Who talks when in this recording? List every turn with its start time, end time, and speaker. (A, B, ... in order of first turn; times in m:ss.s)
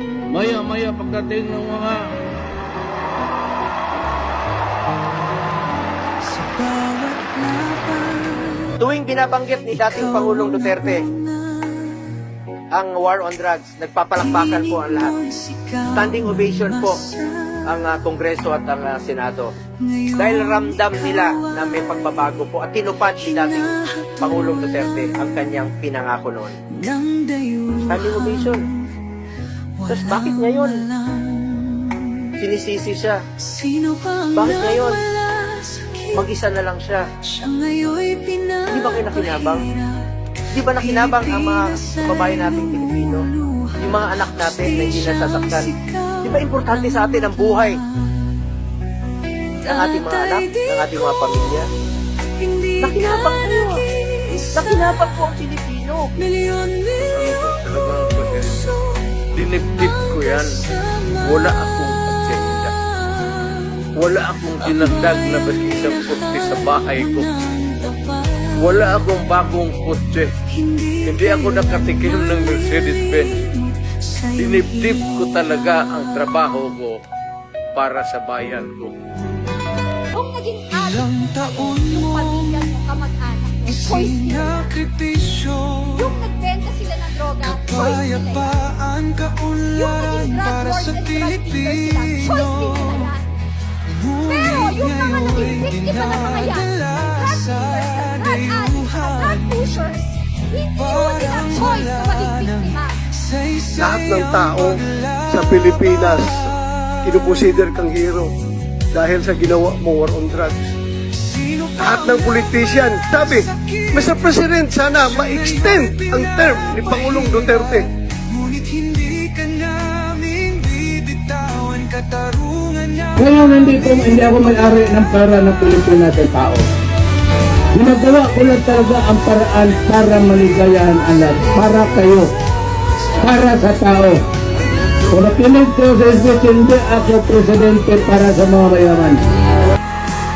0:00.3-0:02.0 A
0:06.3-0:08.7 B
0:08.8-0:11.1 C
0:11.6-0:11.8 B
0:12.7-0:15.2 C
0:15.4-0:15.8 B
0:15.9-0:19.5 C
0:20.1-0:26.6 C
0:26.9-0:27.8 B
0:27.8-0:28.7 C
0:29.8-0:30.9 C
0:31.1-0:32.1 B
0:32.4-0:33.2 C
0:33.6-0:34.2 B
0:34.3-0:35.1 C
0:35.3-0:36.1 B
0:36.1-0:37.0 C
0:37.4-0:38.7 B
0:38.7-0:39.7 C
0:40.5-0:47.8 C
0:49.6-0:51.7 C
0:52.8-0:53.9 C
0:54.2-0:54.4 B
0:54.5-0:56.1 C
0:56.4-0:56.9 B
0:57.0-0:58.8 A
0:59.3-1:02.7 A
1:03.4-1:03.7 B
1:03.9-1:07.3 A
1:07.5-1:08.2 B
1:08.5-1:10.3 A
1:11.0-1:13.5 A
1:13.6-1:14.2 B
1:14.3-1:17.0 A
1:17.7-1:18.9 A
1:20.1-1:25.0 D
1:24.9-1:25.9 B
1:25.8-1:28.8 D
1:28.7-1:29.7 B
1:29.6-1:33.3 D
1:34.0-1:43.0 D
1:43.7-1:48.3 E
1:48.9-1:50.6 E
1:51.4-1:51.7 B
1:51.7-1:57.9 E
1:58.3-2:03.1 B
2:03.1-2:06.6 A
2:07.7-2:12.3 A
2:13.1-2:14.2 A
2:15.1-2:19.2 A